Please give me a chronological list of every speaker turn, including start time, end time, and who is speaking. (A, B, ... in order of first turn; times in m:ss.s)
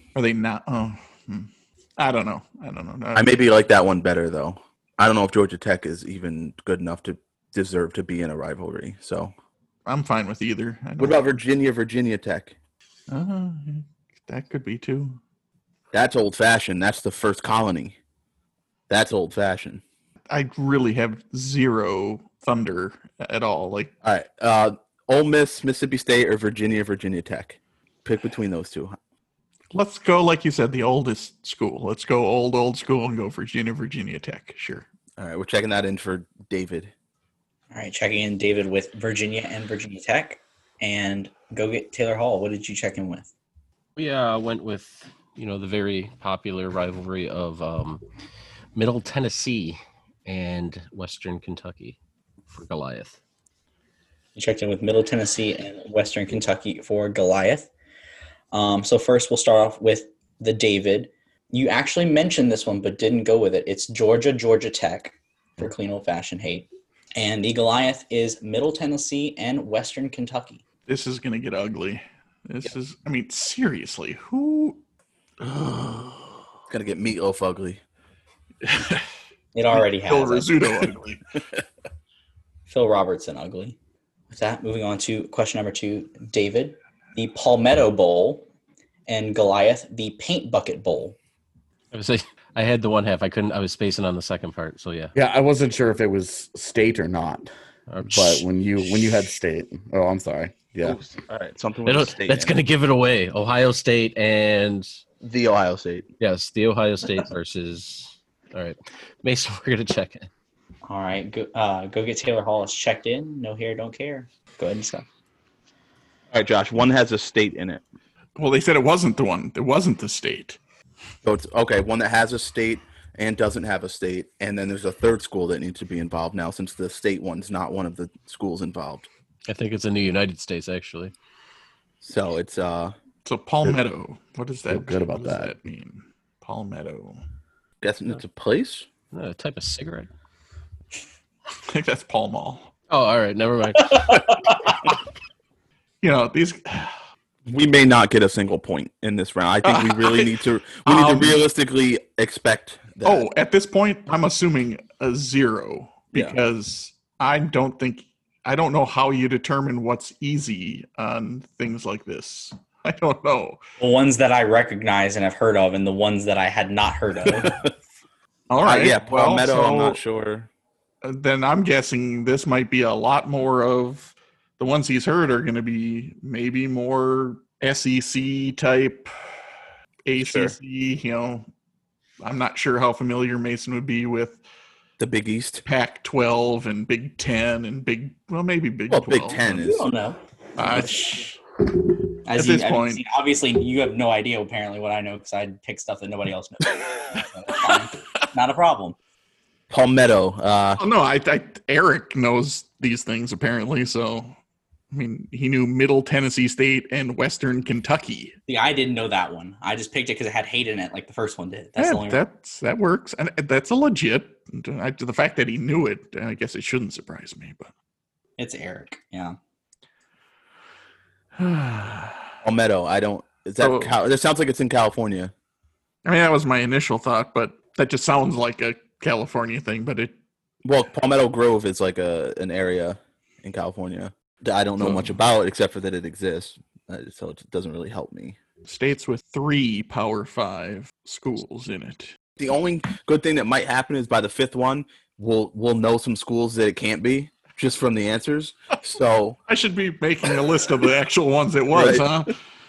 0:00.1-0:03.4 A
0:03.1-0:09.3 B
0:09.8-0:11.3 A
0:11.0-0:12.5 B
0:13.1-0:15.2 A
0:15.9-0:18.0 B
0:18.9-0:19.8 B
0:20.3-0:23.9 A
0:24.0-0:29.0 B
0:29.7-0:34.8 A
0:35.2-0:36.9 B
0:37.7-0:43.3 C
0:44.0-0:48.0 D
0:48.7-0:52.0 D
0:52.5-0:53.2 D
0:54.3-0:57.7 C
0:58.5-1:10.6 C
1:10.9-1:14.8 A
1:16.7-1:17.8 B
1:18.6-1:19.1 A
1:19.5-1:20.5 C
1:19.7-1:21.2 A
1:22.7-1:23.8 C
1:24.3-1:28.5 C
1:29.1-1:31.2 C
1:31.9-1:35.1 D
1:35.1-1:37.5 E
1:37.9-1:39.1 D
1:38.0-1:41.0 E
1:40.8-1:42.5 B
1:41.8-1:44.9 D
1:45.2-1:46.1 B
1:46.2-1:50.3 D
1:50.8-1:55.0 C
1:56.3-1:57.8 B
1:58.4-2:00.6 A
2:01.2-2:09.1 B
2:09.5-2:11.1 D
2:12.0-2:12.9 B
2:13.2-2:17.2 A
2:14.7-2:15.5 E
2:17.8-2:18.9 B
2:19.1-2:20.1 D
2:21.6-2:22.7 A
2:22.9-2:24.3 D
2:26.0-2:26.9 A
2:27.5-2:33.2 B
2:29.6-2:31.4 A
2:33.0-2:43.6 A
2:43.8-2:47.6 C
2:47.2-2:47.7 B
2:48.5-2:50.0 A
2:48.6-2:50.5 B
2:51.0-2:59.1 A
3:00.0-3:01.5 A
3:00.2-3:00.5 B
3:02.2-3:04.4 A
3:05.0-3:05.6 B
3:05.6-3:09.6 A
3:08.9-3:09.9 B
3:09.6-3:11.2 C
3:10.6-3:11.4 A
3:12.2-3:19.0 C
3:12.3-3:13.0 A
3:17.2-3:17.9 A
3:19.7-3:20.8 B
3:20.8-3:24.3 A
3:24.9-3:28.3 A
3:28.5-3:32.2 C
3:31.8-3:37.7 A
3:38.4-3:39.4 C
3:41.4-3:42.3 A
3:42.4-3:45.3 B
3:43.6-3:43.9 A
3:46.0-3:50.2 A
3:50.6-3:58.4 B
3:54.8-3:55.1 A
3:58.6-4:02.1 A
4:02.4-4:09.4 B
4:09.5-4:12.4 A
4:11.7-4:12.1 B